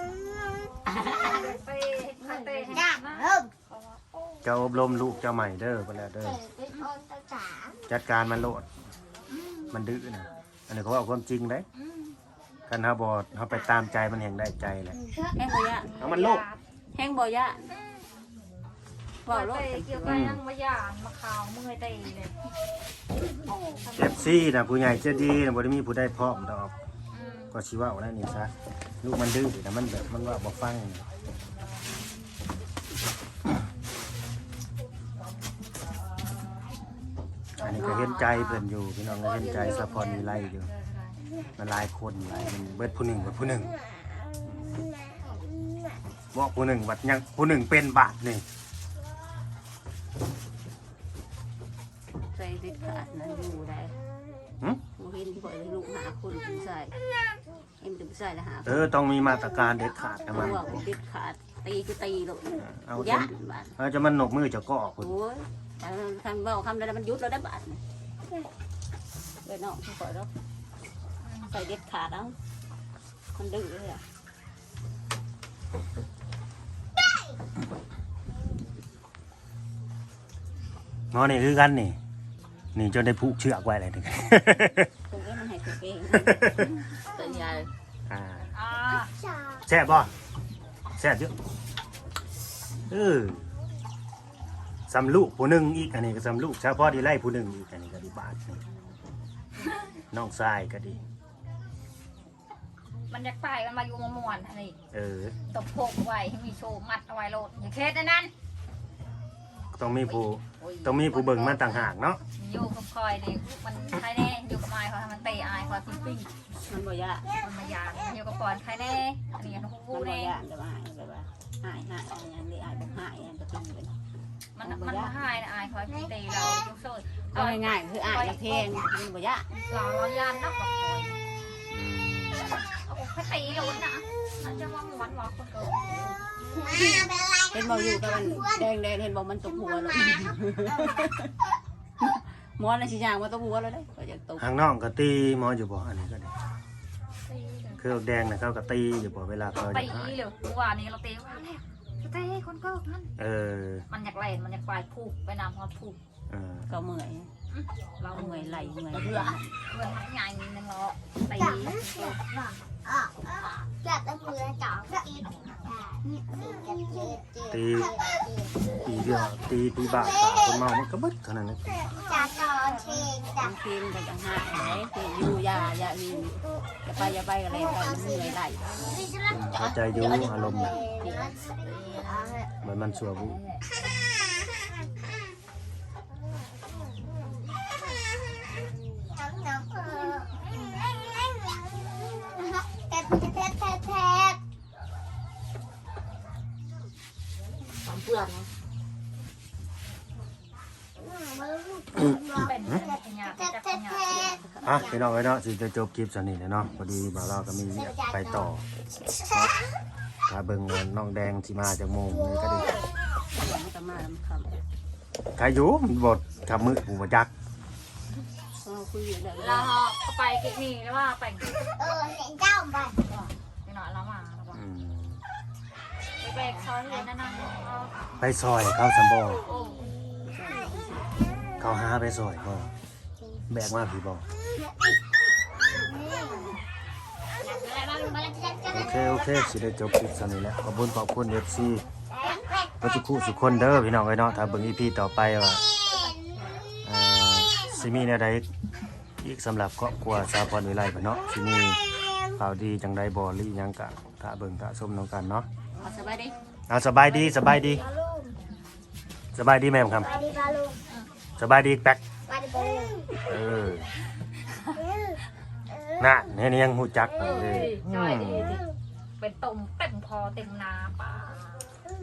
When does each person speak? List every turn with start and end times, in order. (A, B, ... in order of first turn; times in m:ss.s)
0:00.9-0:01.2 A
0:01.0-0:03.3 B
0:01.1-0:01.5 C
0:02.2-0:03.5 C
0:04.4-0:06.4 D
0:06.2-0:07.8 C
0:07.9-0:08.7 D
0:09.3-0:09.7 B
0:09.7-0:11.7 D
0:11.7-0:12.2 B
0:12.7-0:15.0 D
0:13.5-0:13.8 B
0:15.0-0:15.4 C
0:15.4-0:15.9 E
0:15.9-0:16.6 B
0:16.0-0:16.5 D
0:16.9-0:17.7 E
0:19.3-0:20.3 E
0:19.3-0:22.3 B
0:20.0-0:20.4 D
0:23.6-0:24.4 B
0:24.0-0:26.7 D
0:27.1-0:27.5 B
0:27.5-0:28.5 D
0:29.0-0:31.0 D
0:37.5-0:41.2 B
0:37.6-0:40.7 D
0:41.6-0:43.8 D
0:46.3-0:48.4 D
0:52.3-0:54.0 E
0:55.0-0:56.9 E
0:57.8-0:58.9 E
0:58.6-1:00.9 D
1:00.3-1:03.8 E
1:02.6-1:05.1 D
1:05.0-1:07.8 E
1:09.4-1:10.3 E
1:11.2-1:11.5 B
1:11.5-1:12.3 E
1:13.4-1:14.0 E
1:21.1-1:22.0 D
1:22.8-1:24.9 D
1:25.1-1:27.0 E
1:26.1-1:26.8 D
1:27.1-1:27.7 C
1:27.2-1:27.7 A
1:28.1-1:28.5 D
1:28.5-1:29.1 B
1:29.0-1:29.6 C
1:29.7-1:30.1 D
1:31.0-1:31.3 D
1:32.9-1:33.4 D
1:34.9-1:38.6 D
1:40.1-1:41.0 D
1:43.1-1:44.8 B
1:44.9-1:45.4 D
1:45.5-1:48.3 B
1:49.7-1:52.2 D
1:50.6-1:51.3 E
1:51.2-1:56.3 B
1:56.7-1:57.3 E
1:57.4-2:00.4 B
1:59.9-2:03.9 E
2:04.6-2:08.8 B
2:04.6-2:05.2 E
2:07.4-2:09.5 E
2:09.6-2:11.2 B
2:11.7-2:12.6 D
2:12.7-2:16.2 B
2:16.5-2:18.6 C
2:16.7-2:17.0 E
2:17.5-2:21.3 E
2:20.7-2:21.1 B
2:22.0-2:24.4 E
2:24.4-2:26.3 D
2:27.3-2:27.8 B
2:27.8-2:30.2 D
2:29.5-2:33.1 B
2:33.2-2:33.9 D
2:33.9-2:36.0 B
2:36.3-2:36.7 D
2:36.7-2:37.3 E
2:37.5-2:38.8 B
2:38.1-2:39.5 E
2:38.9-2:39.4 A
2:39.7-2:42.2 B
2:41.3-2:49.3 C
2:47.5-2:47.9 D
2:48.8-2:51.8 D
2:50.0-2:50.4 C
2:51.7-2:53.5 C
2:53.4-2:58.9 E
2:57.7-3:02.5 C
2:59.3-3:00.8 D
2:59.5-3:00.7 A
3:01.0-3:01.4 E
3:02.6-3:03.4 D
3:04.0-3:04.4 C
3:09.1-3:14.4 C
3:17.9-3:18.5 A
3:21.0-3:25.0 C
3:22.4-3:22.8 D
3:22.4-3:24.3 B
3:24.1-3:24.9 E
3:24.6-3:28.6 D
3:27.7-3:28.5 C
3:29.2-3:29.4 C
3:30.3-3:32.7 D
3:32.2-3:32.9 C
3:33.3-3:34.6 E
3:35.4-3:37.3 D
3:38.6-3:39.8 E
3:39.4-3:41.5 B
3:41.8-3:43.3 C
3:43.6-3:44.6 B
3:44.5-3:45.2 D
3:46.2-3:48.0 B
3:48.2-3:49.4 D
3:49.5-3:49.9 B
3:50.3-3:51.2 E
3:51.6-3:52.7 D
3:53.5-3:54.2 D
3:55.6-3:55.9 D
3:55.7-3:56.6 C
3:57.4-3:59.5 C
3:58.7-4:01.9 D
4:02.1-4:02.8 C
4:02.8-4:05.6 D
4:05.8-4:06.5 C
4:06.8-4:08.5 D
4:09.2-4:11.8 D
4:11.9-4:12.3 C
4:12.4-4:15.5 D
4:15.8-4:16.4 E
4:16.7-4:17.8 D
4:17.3-4:18.4 C
4:19.3-4:20.2 D
4:19.9-4:20.8 C
4:21.4-4:22.0 D
4:22.3-4:23.2 C
4:23.3-4:23.9 D
4:26.0-4:28.6 D
4:27.2-4:28.6 B
4:29.2-4:31.6 B